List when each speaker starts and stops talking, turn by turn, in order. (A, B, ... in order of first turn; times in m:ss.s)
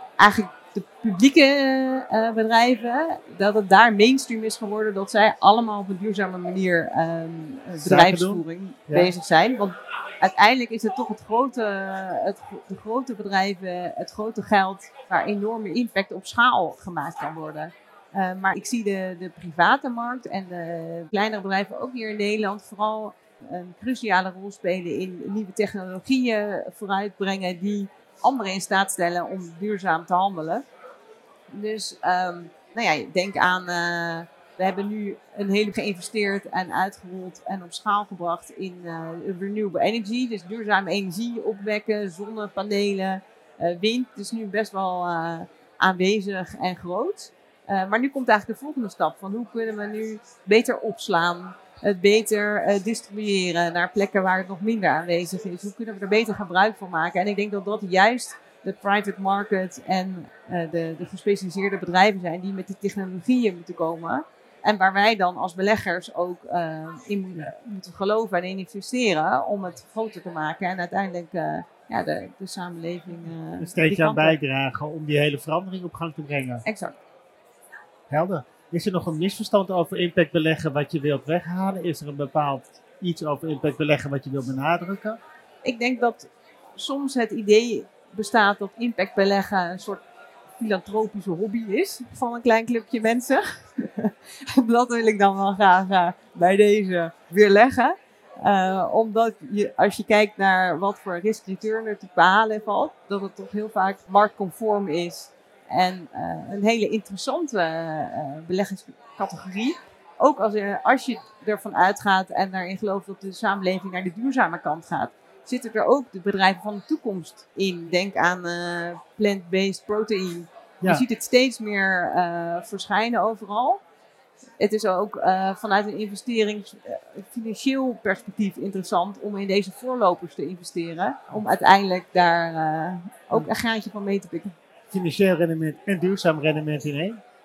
0:00.2-0:30.6 A
0:07.8-0:09.1 B
0:31.5-1:14.4 A
1:13.6-1:16.6 B
1:16.6-1:17.0 A
1:18.1-1:25.2 B
1:25.6-1:30.0 A
1:30.6-2:03.8 A
2:04.6-2:14.5 A
2:14.9-2:17.2 B